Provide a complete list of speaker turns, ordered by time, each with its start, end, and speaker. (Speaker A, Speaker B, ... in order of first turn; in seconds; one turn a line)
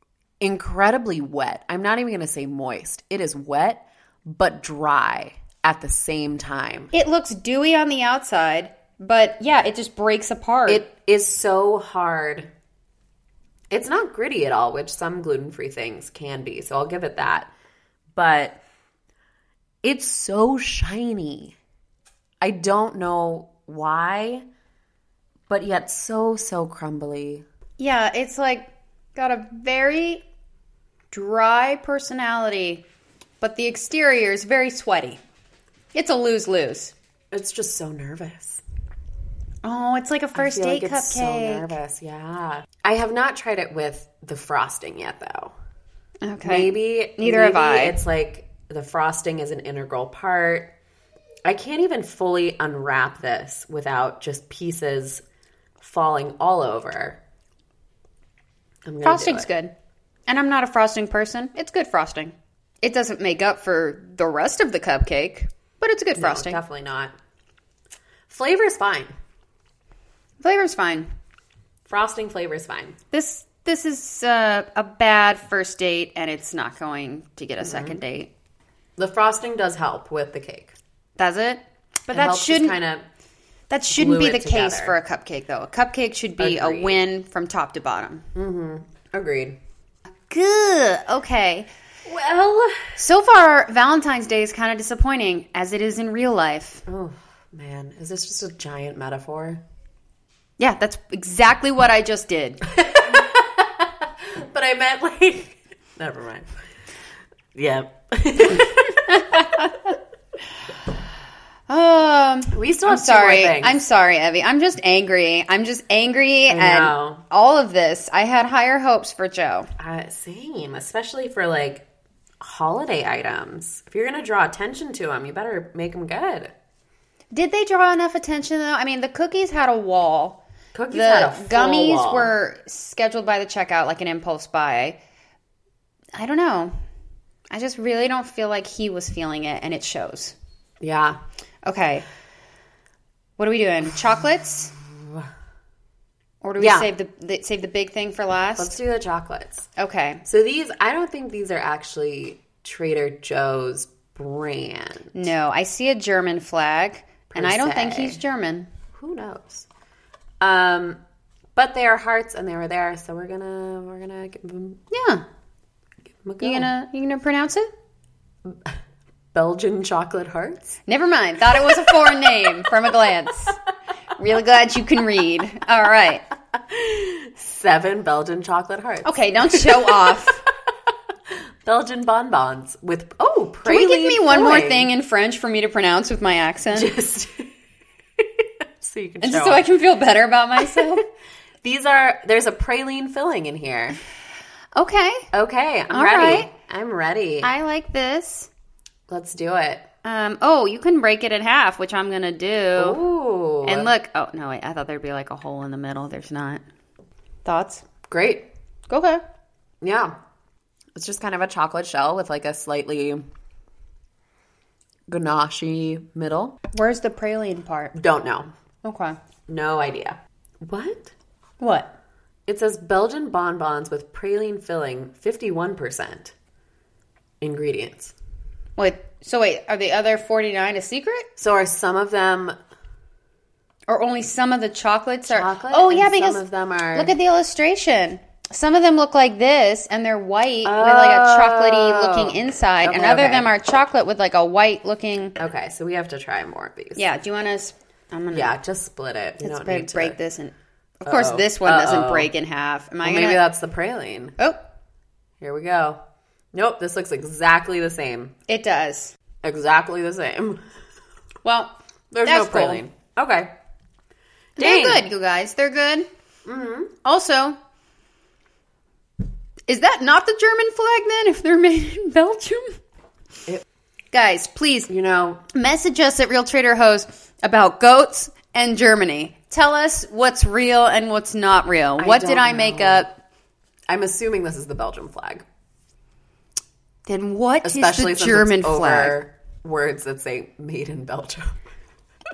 Speaker A: 0.4-6.9
Speaker B: 6.9-10.8
Speaker A: 10.7-12.5
Speaker A: 13.7-17.5
Speaker A: 18.1-18.6
Speaker A: 19.8-21.6
Speaker A: 22.4-24.4
Speaker A: 25.5-27.4
Speaker B: 27.8-30.2
Speaker B: 31.1-32.8
Speaker B: 33.4-35.2
Speaker B: 35.9-36.9
Speaker A: 37.3-38.6
Speaker B: 39.6-41.8
Speaker A: 40.3-45.5
Speaker B: 46.2-48.0
Speaker A: 46.4-50.7
Speaker A: 51.4-55.2
Speaker A: 55.8-57.2
Speaker A: 58.9-59.5
Speaker B: 59.0-59.7
Speaker B: 60.3-66.6
Speaker A: 66.2-67.1
Speaker A: 68.3-69.1
Speaker B: 70.4-71.1
Speaker A: 71.8-73.0
Speaker B: 73.1-78.3
Speaker A: 77.6-78.0
Speaker A: 79.0-80.7
Speaker B: 81.2-82.8
Speaker A: 82.1-83.0
Speaker B: 83.7-88.3
Speaker A: 83.9-85.0
Speaker A: 86.4-87.0
Speaker A: 88.3-89.6
Speaker B: 90.3-91.7
Speaker A: 92.0-93.0
Speaker B: 93.0-96.8
Speaker A: 96.9-99.6
Speaker B: 100.6-102.7
Speaker A: 102.7-106.5
Speaker A: 107.5-109.7
Speaker B: 108.7-109.9
Speaker B: 111.7-119.7
Speaker A: 112.5-113.8
Speaker A: 116.5-117.2
Speaker A: 119.8-121.8
Speaker A: 122.4-126.5
Speaker B: 127.3-130.4
Speaker A: 130.7-132.3
Speaker B: 130.9-135.0
Speaker B: 136.2-136.7
Speaker B: 137.5-140.3
Speaker A: 140.8-141.2
Speaker B: 141.7-142.0
Speaker B: 143.4-144.8
Speaker A: 144.9-145.2
Speaker B: 146.4-148.8
Speaker A: 146.6-146.9
Speaker A: 148.6-149.7
Speaker B: 149.8-150.2
Speaker A: 150.2-155.2
Speaker B: 155.1-158.7
Speaker A: 157.3-158.2
Speaker A: 158.9-159.7
Speaker A: 160.4-161.0
Speaker A: 161.5-164.8
Speaker B: 164.9-165.2
Speaker A: 166.2-166.7
Speaker B: 166.4-167.7
Speaker A: 168.4-168.8
Speaker A: 169.3-170.8
Speaker B: 170.8-173.6
Speaker A: 171.5-172.7
Speaker B: 174.2-176.2
Speaker A: 176.5-180.2
Speaker B: 179.0-180.4
Speaker A: 181.6-184.9
Speaker B: 183.6-186.9
Speaker A: 186.7-187.5
Speaker A: 188.2-189.6
Speaker B: 189.2-191.0
Speaker A: 190.6-190.9
Speaker A: 191.6-194.0
Speaker B: 194.8-195.3
Speaker A: 195.3-197.5
Speaker B: 195.9-196.5
Speaker B: 197.4-198.5
Speaker A: 199.1-199.8
Speaker B: 200.0-203.0
Speaker A: 202.8-203.9
Speaker B: 203.6-206.6
Speaker B: 207.4-207.8
Speaker A: 208.1-208.5
Speaker B: 208.9-209.2
Speaker A: 209.8-210.2
Speaker A: 210.9-213.2
Speaker A: 215.1-216.6
Speaker B: 216.7-217.9
Speaker A: 217.9-218.5
Speaker B: 218.8-219.2
Speaker A: 219.5-221.1
Speaker B: 221.6-221.9
Speaker A: 222.5-226.3
Speaker A: 227.4-228.1
Speaker B: 228.8-231.3
Speaker A: 231.4-232.6
Speaker B: 233.9-245.4
Speaker A: 235.2-237.1
Speaker A: 240.6-243.5
Speaker A: 245.4-247.0
Speaker B: 246.9-248.5
Speaker A: 248.3-250.2
Speaker B: 249.4-253.4
Speaker A: 251.0-252.3
Speaker A: 253.0-254.4
Speaker A: 255.4-256.0
Speaker A: 256.5-258.3
Speaker B: 258.5-259.1
Speaker A: 259.4-260.6
Speaker B: 261.4-262.8
Speaker A: 262.1-263.5
Speaker A: 264.6-265.0
Speaker B: 264.6-266.1
Speaker A: 266.4-266.9
Speaker B: 267.0-267.6
Speaker B: 269.7-272.8
Speaker B: 274.1-274.9
Speaker A: 274.9-275.4
Speaker B: 275.5-283.2
Speaker A: 282.0-283.1
Speaker A: 283.9-285.4
Speaker B: 287.1-289.2
Speaker A: 287.6-291.6